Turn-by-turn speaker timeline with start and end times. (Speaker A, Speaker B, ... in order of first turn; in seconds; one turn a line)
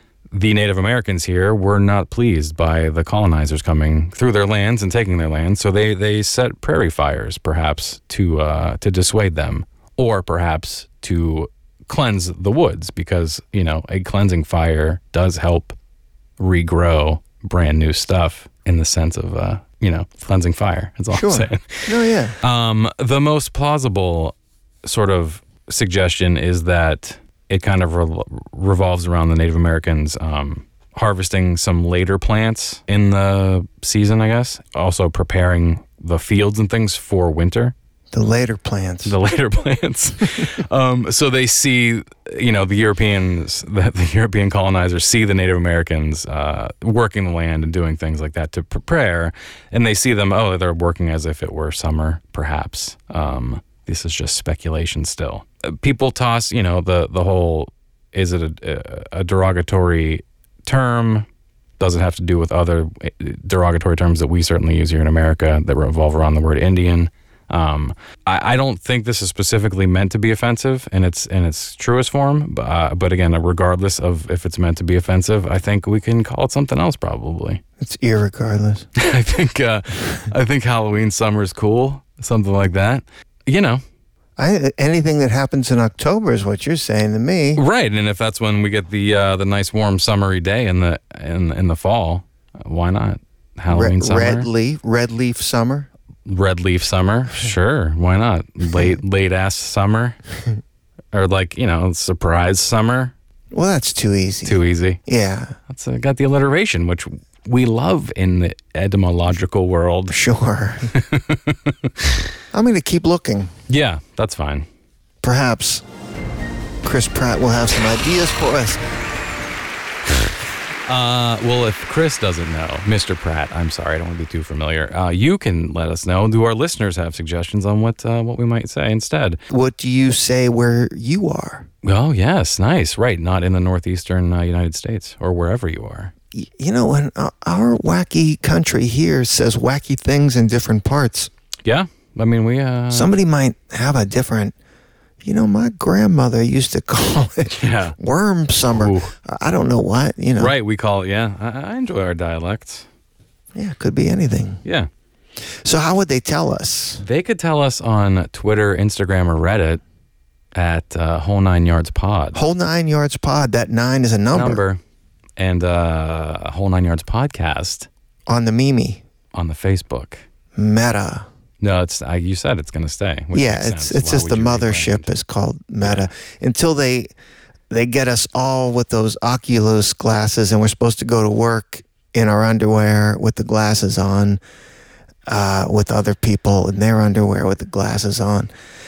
Speaker A: 0.3-15.8
Speaker A: 16.4-37.7
Speaker B: 21.1-22.4
Speaker B: 38.1-39.1
Speaker A: 39.0-61.3
Speaker A: 61.8-77.6
Speaker B: 77.8-78.9
Speaker A: 79.0-83.8
Speaker B: 84.4-87.6
Speaker A: 87.5-94.5
Speaker B: 93.7-95.9
Speaker A: 96.2-100.2
Speaker B: 98.7-99.0
Speaker A: 101.1-103.1
Speaker B: 103.5-105.6
Speaker A: 104.4-105.0
Speaker A: 105.7-110.2
Speaker B: 110.1-110.9
Speaker A: 110.9-112.3
Speaker B: 112.5-113.5
Speaker A: 113.7-114.7
Speaker B: 115.2-115.8
Speaker B: 116.8-118.8
Speaker A: 120.8-129.4
Speaker B: 129.5-131.7
Speaker A: 131.8-136.1
Speaker B: 136.3-141.3
Speaker A: 141.6-143.1
Speaker B: 142.9-144.5
Speaker B: 145.2-150.5
Speaker A: 147.5-147.9
Speaker A: 148.7-149.1
Speaker A: 150.4-152.9
Speaker B: 153.5-154.6
Speaker A: 154.6-154.9
Speaker B: 155.5-157.0
Speaker A: 157.0-159.8
Speaker A: 160.5-162.4
Speaker B: 162.3-164.6
Speaker A: 164.3-164.8
Speaker A: 165.4-167.9
Speaker B: 168.3-169.0
Speaker A: 169.3-170.2
Speaker B: 170.5-171.3
Speaker A: 171.6-175.1
Speaker B: 173.3-177.1
Speaker A: 175.8-176.1
Speaker B: 177.7-184.4
Speaker B: 185.3-188.5